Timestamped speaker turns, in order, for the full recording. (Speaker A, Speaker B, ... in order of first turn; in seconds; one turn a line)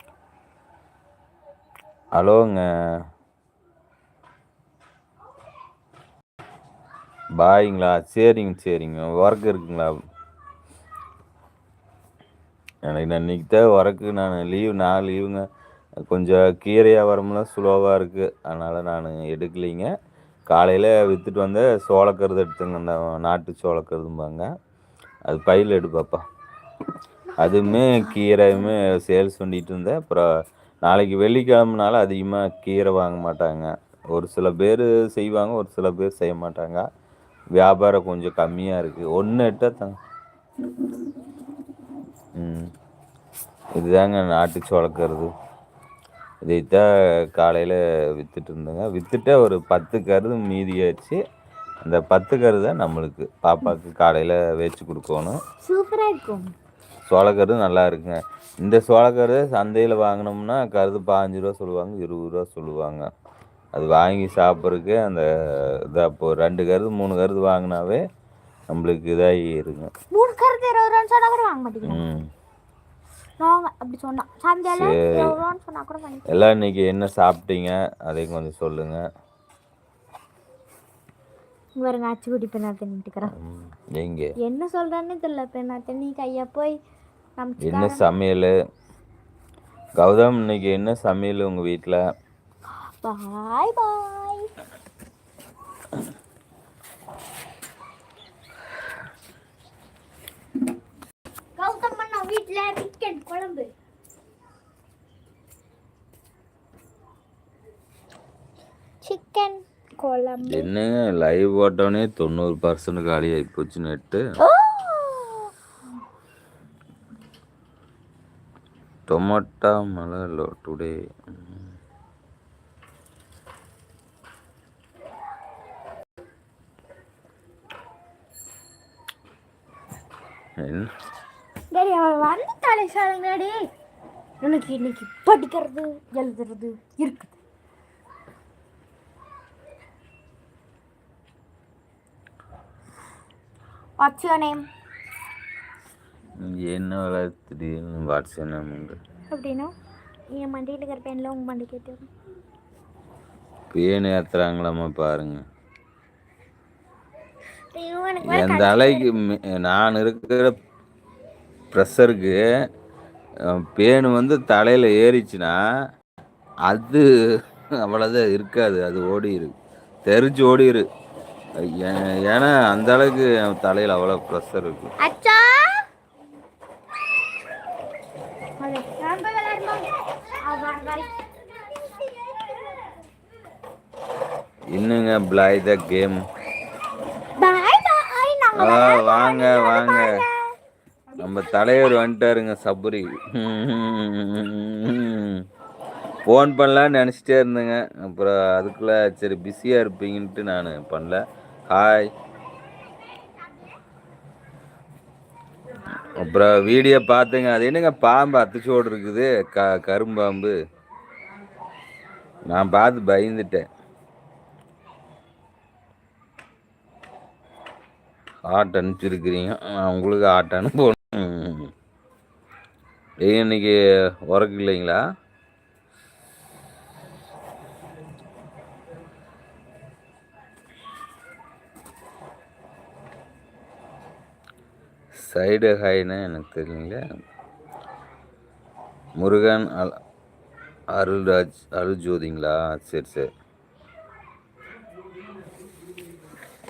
Speaker A: 2.1-2.6
Speaker A: 7.4-10.0
Speaker A: 12.8-15.4
Speaker A: 16.1-19.9
Speaker A: 20.5-24.4
Speaker A: 25.3-26.2
Speaker A: 27.4-30.3
Speaker B: 27.4-27.7
Speaker A: 30.8-36.8
Speaker A: 37.5-40.0
Speaker A: 42.4-42.7
Speaker A: 43.7-45.3
Speaker A: 46.4-51.2
Speaker A: 51.8-55.4
Speaker B: 55.6-56.5
Speaker A: 57.1-63.0
Speaker A: 63.7-65.2
Speaker A: 65.8-68.0
Speaker A: 68.7-69.9
Speaker B: 70.1-72.1
Speaker A: 71.8-72.3
Speaker B: 73.4-76.3
Speaker A: 74.7-75.4
Speaker A: 76.3-79.0
Speaker B: 81.8-83.3
Speaker A: 83.2-84.3
Speaker B: 84.4-86.7
Speaker B: 87.4-88.0
Speaker A: 87.6-88.5
Speaker A: 90.0-92.0
Speaker B: 93.0-94.5
Speaker B: 101.6-103.7
Speaker B: 109.0-110.7
Speaker A: 110.4-114.2
Speaker B: 114.4-115.5
Speaker A: 119.1-121.6
Speaker A: 130.6-130.9
Speaker B: 131.7-133.5
Speaker B: 134.4-137.3
Speaker B: 144.0-144.6
Speaker A: 146.4-149.0
Speaker B: 149.3-149.7
Speaker B: 150.3-152.1
Speaker A: 153.7-155.4
Speaker B: 157.7-159.1
Speaker A: 158.2-160.5
Speaker A: 161.7-162.4
Speaker A: 163.5-165.6
Speaker A: 166.7-167.1
Speaker A: 167.8-169.5
Speaker A: 170.1-170.8
Speaker A: 171.6-174.9
Speaker B: 175.0-175.8
Speaker B: 178.6-179.9
Speaker B: 180.4-183.0
Speaker A: 184.7-186.2
Speaker B: 187.4-190.5
Speaker A: 188.5-190.1
Speaker A: 191.2-195.4
Speaker A: 196.2-202.1
Speaker A: 206.1-210.5
Speaker A: 212.5-213.6
Speaker A: 218.5-221.7
Speaker A: 223.2-225.0
Speaker A: 235.2-237.0
Speaker A: 239.2-240.0
Speaker A: 240.9-243.3